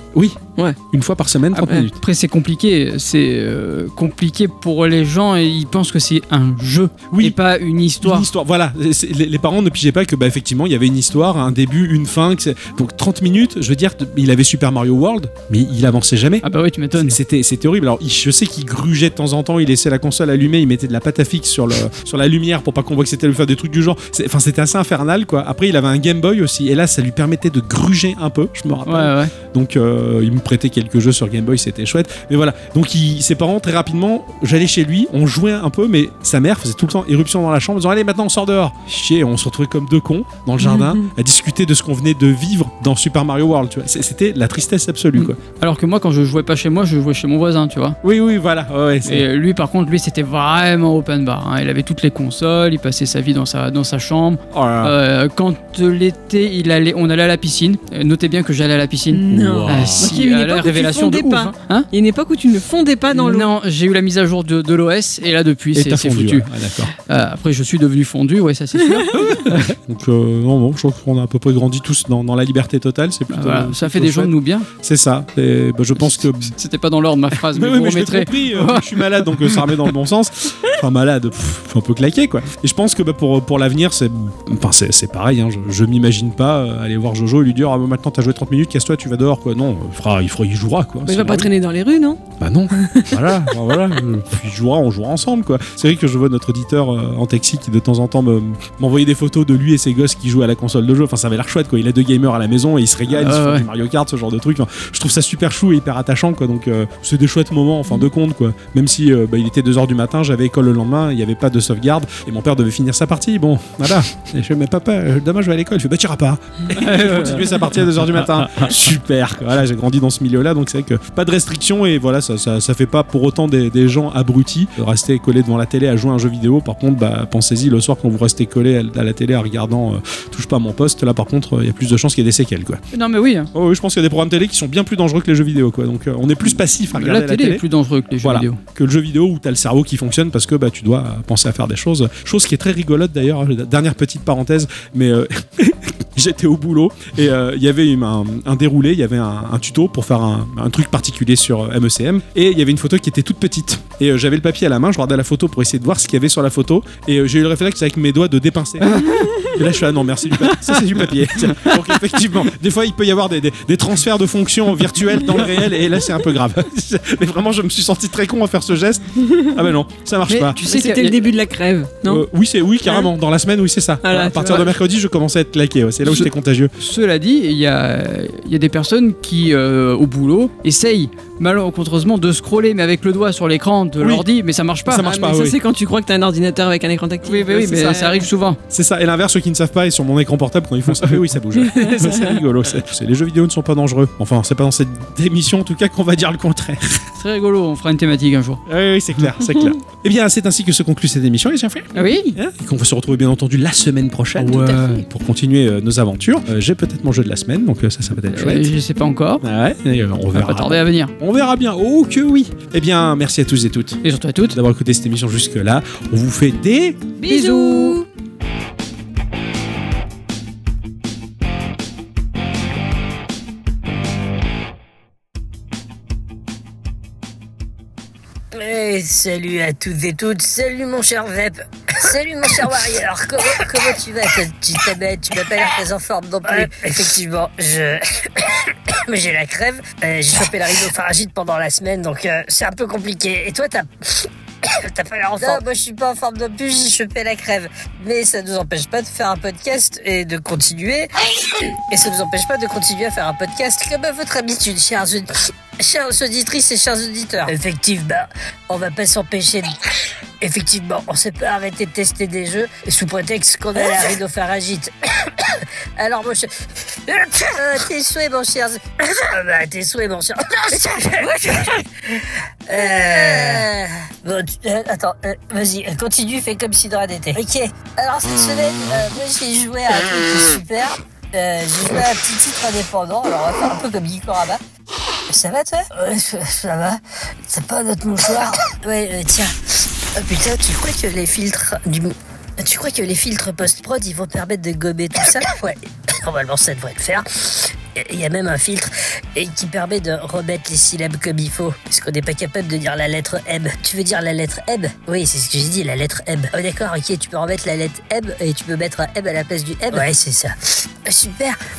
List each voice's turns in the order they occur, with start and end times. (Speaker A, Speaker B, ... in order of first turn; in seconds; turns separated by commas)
Speaker A: 0.1-1.9, Speaker B: 1.5-1.9, Speaker C: 2.0-8.3, Speaker A: 7.1-7.4, Speaker A: 8.0-16.4, Speaker C: 16.4-17.2, Speaker A: 17.0-45.4, Speaker C: 28.9-29.3, Speaker B: 40.6-41.1, Speaker C: 45.2-48.0, Speaker A: 48.0-49.3, Speaker C: 49.0-61.9, Speaker A: 54.5-54.9, Speaker B: 59.1-63.5, Speaker A: 59.3-60.1, Speaker C: 63.1-69.7, Speaker A: 65.7-66.9, Speaker A: 69.1-76.5, Speaker C: 73.3-74.7, Speaker C: 76.0-79.7, Speaker A: 77.3-91.5, Speaker B: 91.1-93.6, Speaker A: 92.4-132.8, Speaker C: 103.1-103.7, Speaker C: 116.7-117.5, Speaker C: 132.9-133.5, Speaker A: 133.5-137.6, Speaker C: 136.5-138.6, Speaker A: 138.2-170.6, Speaker B: 169.3-169.6, Speaker C: 170.3-171.3, Speaker B: 170.6-172.3, Speaker A: 172.1-176.7, Speaker B: 172.9-173.1, Speaker B: 174.0-174.8, Speaker C: 176.8-185.1, Speaker A: 184.0-184.3, Speaker A: 184.8-185.6, Speaker B: 185.0-188.3, Speaker C: 187.2-188.6, Speaker A: 188.7-197.0, Speaker B: 191.6-192.4, Speaker C: 197.2-198.6, Speaker A: 198.7-208.7, Speaker C: 201.9-202.4, Speaker B: 204.4-204.8, Speaker C: 204.5-205.0, Speaker C: 208.3-209.4, Speaker A: 209.4-217.1, Speaker C: 210.3-211.1, Speaker C: 214.0-214.6, Speaker B: 217.2-218.1, Speaker C: 217.2-218.0, Speaker D: 228.5-259.8, Speaker D: 260.4-284.6, Speaker D: 285.3-289.5, Speaker D: 290.1-311.6